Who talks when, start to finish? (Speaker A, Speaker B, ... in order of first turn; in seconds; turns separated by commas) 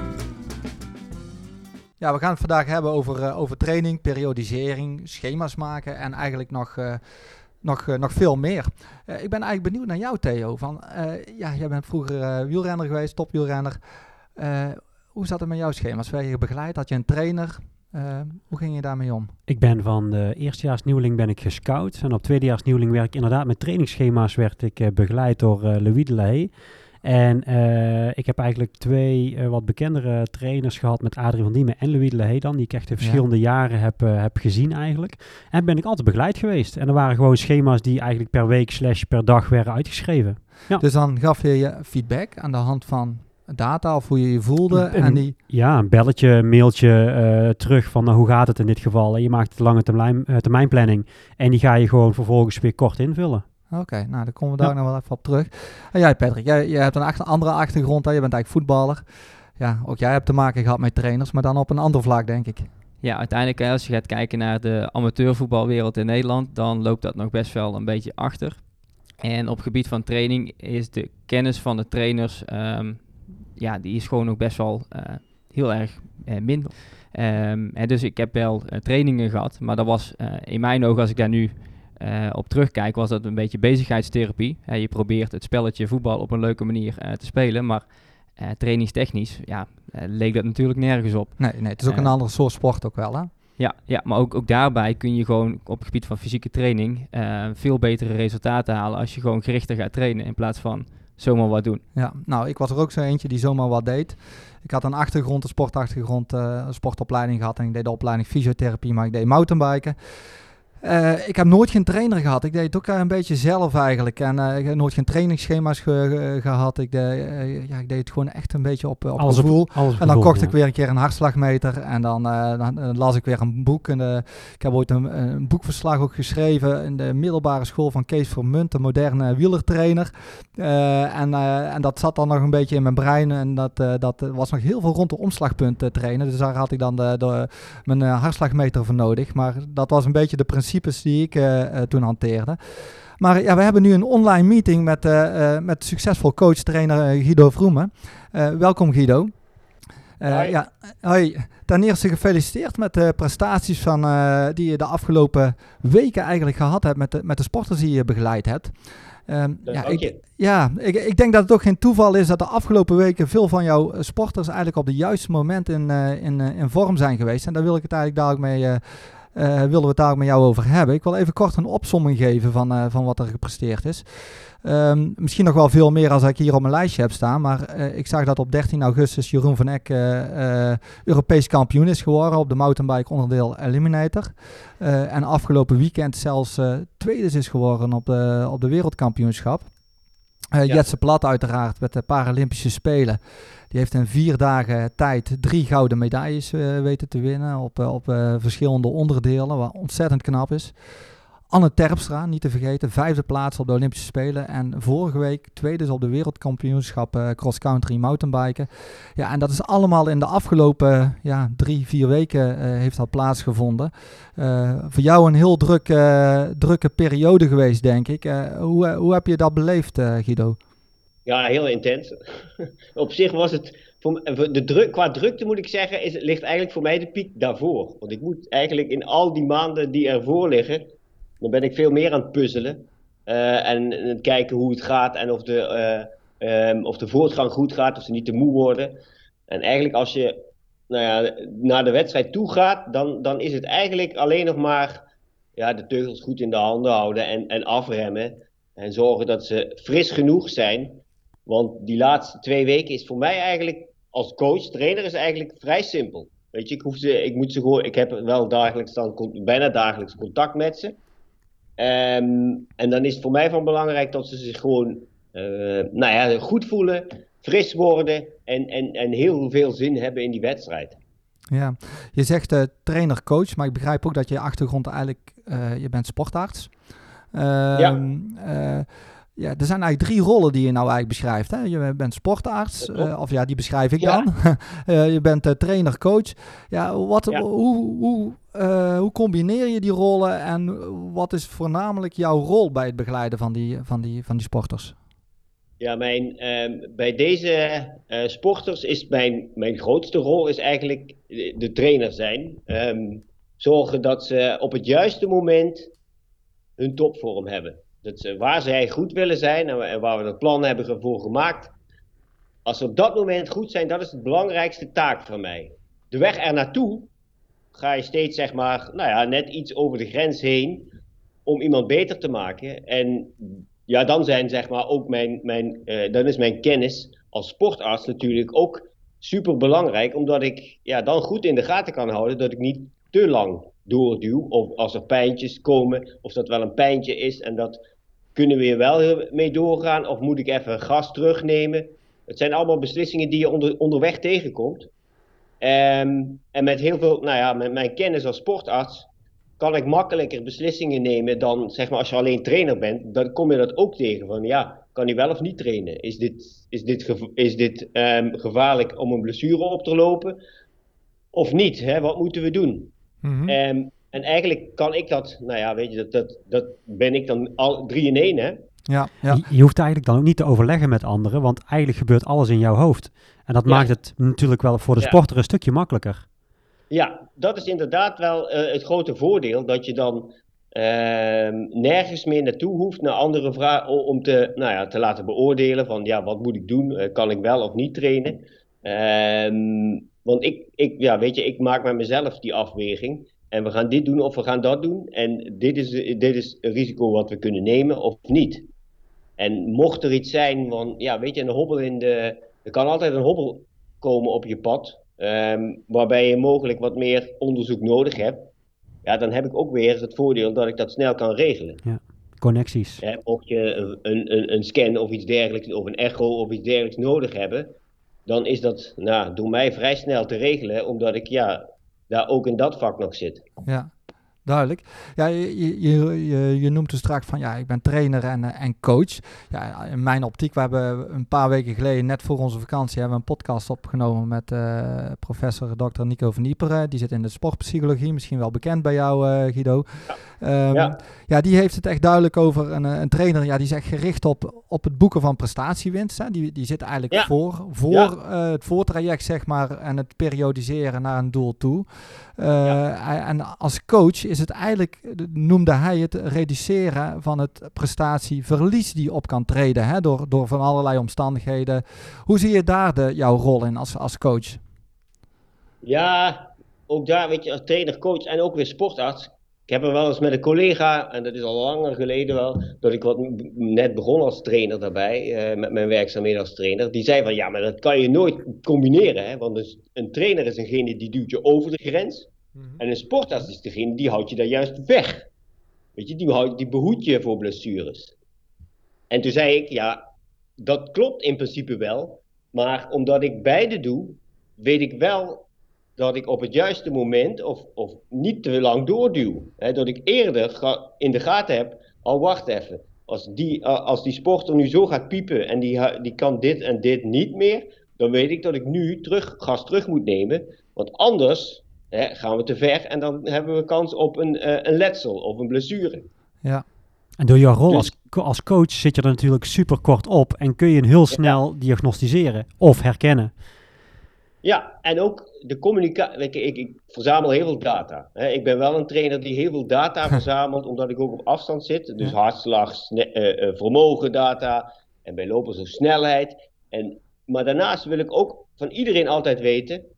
Speaker A: 2.0-19.3, Speaker B: 19.5-40.8, Speaker A: 40.8-45.3, Speaker B: 44.7-53.4, Speaker A: 53.7-62.7, Speaker C: 63.0-92.1, Speaker A: 91.4-93.3, Speaker C: 93.6-101.8, Speaker A: 101.9-149.5, Speaker B: 119.2-120.6, Speaker A: 150.2-189.7, Speaker D: 150.3-150.5, Speaker D: 159.7-160.2, Speaker A: 190.5-220.6, Speaker D: 221.2-230.9, Speaker D: 231.4-238.9, Speaker D: 239.5-240.4, Speaker D: 240.9-245.0, Speaker D: 245.6-260.9, Speaker D: 261.8-271.0, Speaker A: 271.5-294.9, Speaker D: 282.8-283.1, Speaker D: 295.8-305.9, Speaker D: 306.8-311.7, Speaker D: 312.6-317.1, Speaker D: 317.7-320.9, Speaker D: 321.4-337.8, Speaker D: 338.4-344.9, Speaker D: 345.6-349.1, Speaker D: 349.6-360.4, Speaker D: 361.3-362.9, Speaker A: 363.2-363.5, Speaker D: 363.5-368.6, Speaker A: 368.9-369.4, Speaker B: 369.3-376.2, Speaker D: 376.9-398.6, Speaker D: 399.4-408.5, Speaker D: 409.0-411.8, Speaker B: 411.8-413.0, Speaker D: 413.0-417.7, Speaker D: 418.2-423.5, Speaker A: 423.6-423.9, Speaker A: 424.4-464.6, Speaker D: 440.7-441.0, Speaker D: 465.8-485.3, Speaker D: 485.9-488.1, Speaker D: 489.1-490.0, Speaker D: 490.6-495.4, Speaker D: 496.0-516.1, Speaker B: 517.2-523.3, Speaker D: 521.1-521.4, Speaker D: 524.4-539.8